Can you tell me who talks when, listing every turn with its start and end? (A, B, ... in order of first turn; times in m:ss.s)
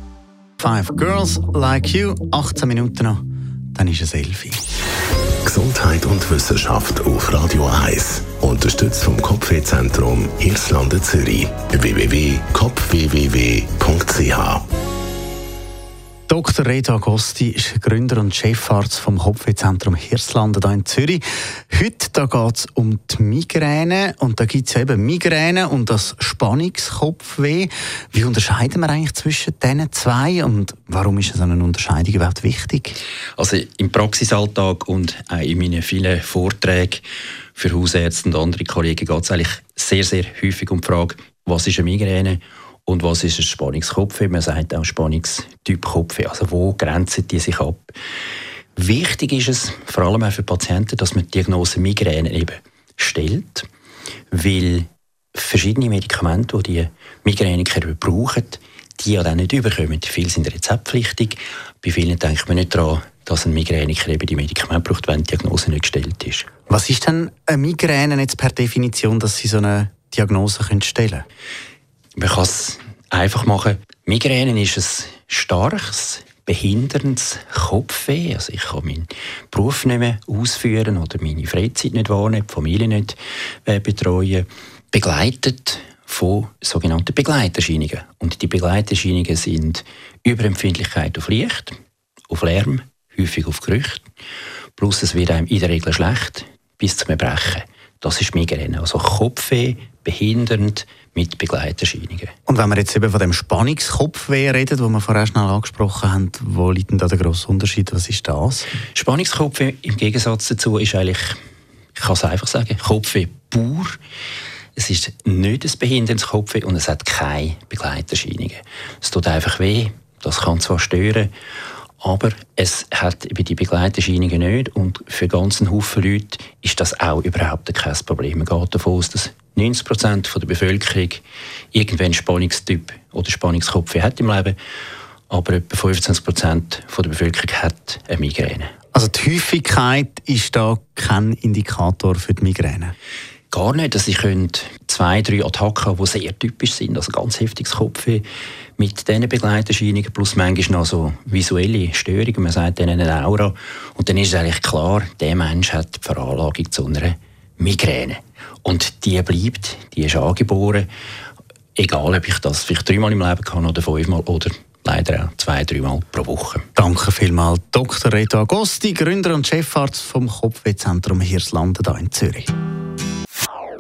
0:00.6-0:03.2 A
0:03.7-0:04.6 A
0:05.4-0:14.6 B
0:16.3-0:33.0 A
0:33.4-0:37.0 C
0:37.6-0:47.9 C
0:48.8-0:53.6 C
0:54.3-1:06.5 C
1:06.7-1:11.2 A
1:12.2-1:31.7 C
1:32.3-1:34.0 C
1:34.8-1:42.3 C
1:42.5-1:48.7 A
1:48.9-1:51.4 C
1:52.0-1:54.0 C
1:54.8-2:01.3 C
2:02.0-2:11.2 C
2:11.7-2:14.6 C
2:15.3-2:18.7 C
2:18.9-2:22.9 A
2:23.5-2:28.2 C
2:28.8-2:40.9 C
2:41.8-2:46.6 C
2:46.8-2:52.5 A